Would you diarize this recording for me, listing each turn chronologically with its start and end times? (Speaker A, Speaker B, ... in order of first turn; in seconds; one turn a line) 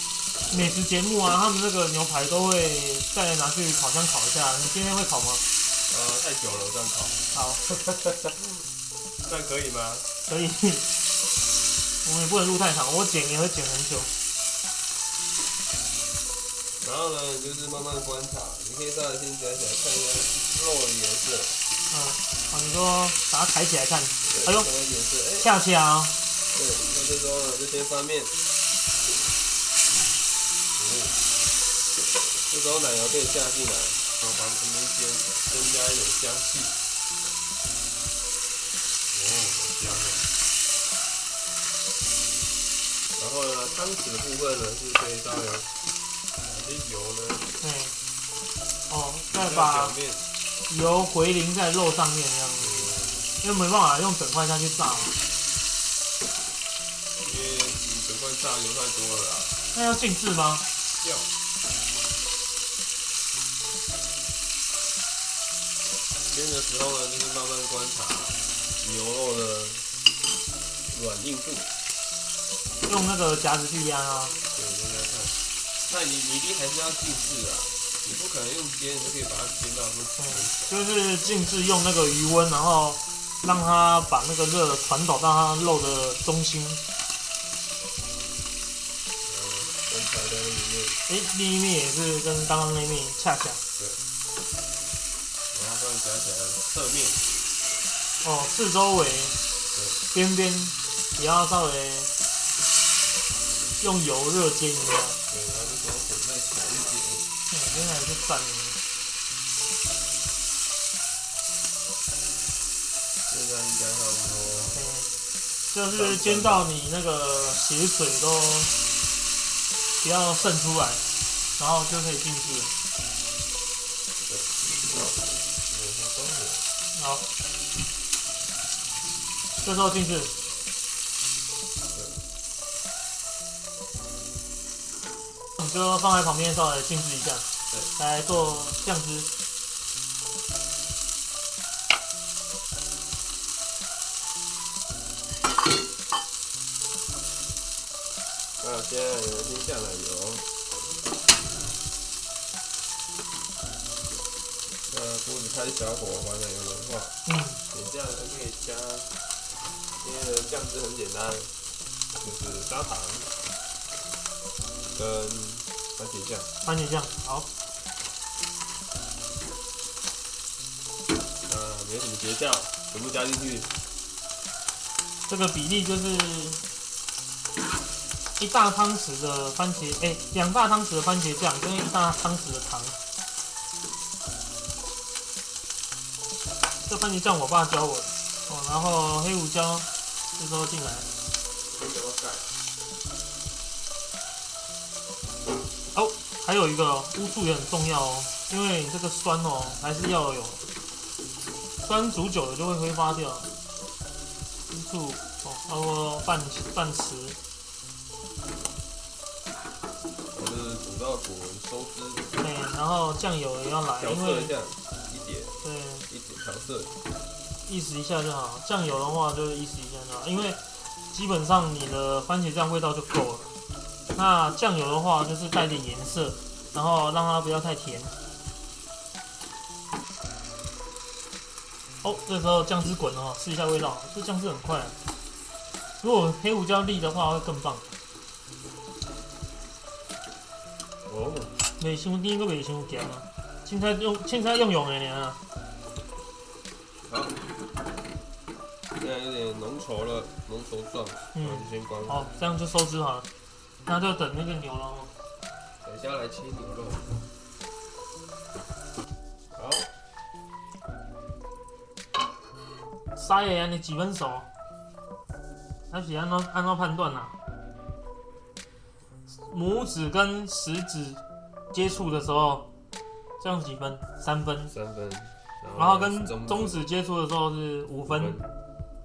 Speaker A: 0.5-5.4
Speaker B: 0.5-0.8
Speaker B: 5.9-8.6
Speaker A: 7.3-7.6
Speaker B: 9.2-10.1
Speaker A: 10.2-10.9
Speaker A: 12.0-14.1
Speaker B: 16.8-21.6
Speaker A: 21.9-24.7
Speaker B: 24.3-25.5
Speaker A: 25.4-26.1
Speaker B: 26.5-28.4
Speaker B: 30.7-31.2
Speaker B: 32.5-36.8
Speaker B: 39.1-40.3
Speaker B: 43.1-45.7
Speaker B: 46.4-47.5
Speaker A: 47.6-48.0
Speaker A: 48.9-49.9
Speaker B: 49.3-50.3
Speaker A: 50.7-52.7
Speaker B: 52.6-53.3
Speaker A: 53.4-55.2
Speaker B: 57.1-59.6
Speaker A: 59.7-60.6
Speaker B: 61.0-61.3
Speaker B: 66.3-69.9
Speaker B: 70.9-71.7
Speaker A: 72.8-74.4
Speaker B: 74.5-80.8
Speaker A: 80.2-86.8
Speaker B: 89.2-91.0
Speaker A: 91.1-93.6
Speaker B: 95.5-97.2
Speaker A: 98.2-99.3
Speaker B: 99.7-100.0
Speaker A: 100.1-102.1
Speaker A: 103.8-105.2
Speaker B: 105.3-107.3
Speaker A: 107.5-108.8
Speaker B: 113.3-114.8
Speaker A: 114.7-115.1
Speaker A: 115.7-118.7
Speaker B: 115.9-116.7
Speaker A: 120.0-121.0
Speaker A: 121.6-122.7
Speaker B: 124.2-126.7
Speaker A: 126.9-127.3
Speaker A: 129.6-130.3
Speaker B: 131.9-132.2
Speaker A: 135.6-139.3
Speaker B: 148.6-150.4
Speaker B: 154.9-157.2
Speaker A: 157.2-157.6
Speaker B: 157.7-159.1
Speaker B: 160.0-161.5
Speaker B: 162.2-163.3
Speaker B: 164.9-166.5
Speaker A: 166.6-167.5
Speaker B: 171.4-173.7
Speaker A: 175.3-176.6
Speaker A: 178.4-183.0
Speaker A: 186.9-191.1
Speaker B: 191.7-192.5
Speaker A: 195.9-200.6
Speaker A: 201.8-203.5
Speaker A: 204.7-207.4
Speaker B: 210.3-212.3
Speaker A: 212.3-214.5
Speaker B: 214.0-215.6
Speaker A: 215.6-216.1
Speaker B: 216.1-216.9
Speaker A: 217.7-223.5
Speaker A: 224.1-228.1
Speaker A: 232.0-234.9
Speaker A: 236.0-237.8
Speaker B: 241.1-241.6
Speaker A: 241.8-245.4
Speaker B: 247.1-247.4
Speaker B: 249.0-252.3
Speaker A: 251.3-253.3
Speaker A: 253.8-255.1
Speaker B: 255.8-257.1
Speaker B: 259.5-259.9
Speaker A: 263.1-264.5
Speaker A: 265.9-267.3
Speaker A: 269.3-272.7
Speaker A: 273.4-274.7
Speaker B: 274.6-276.8
Speaker A: 275.8-278.4
Speaker B: 278.0-278.5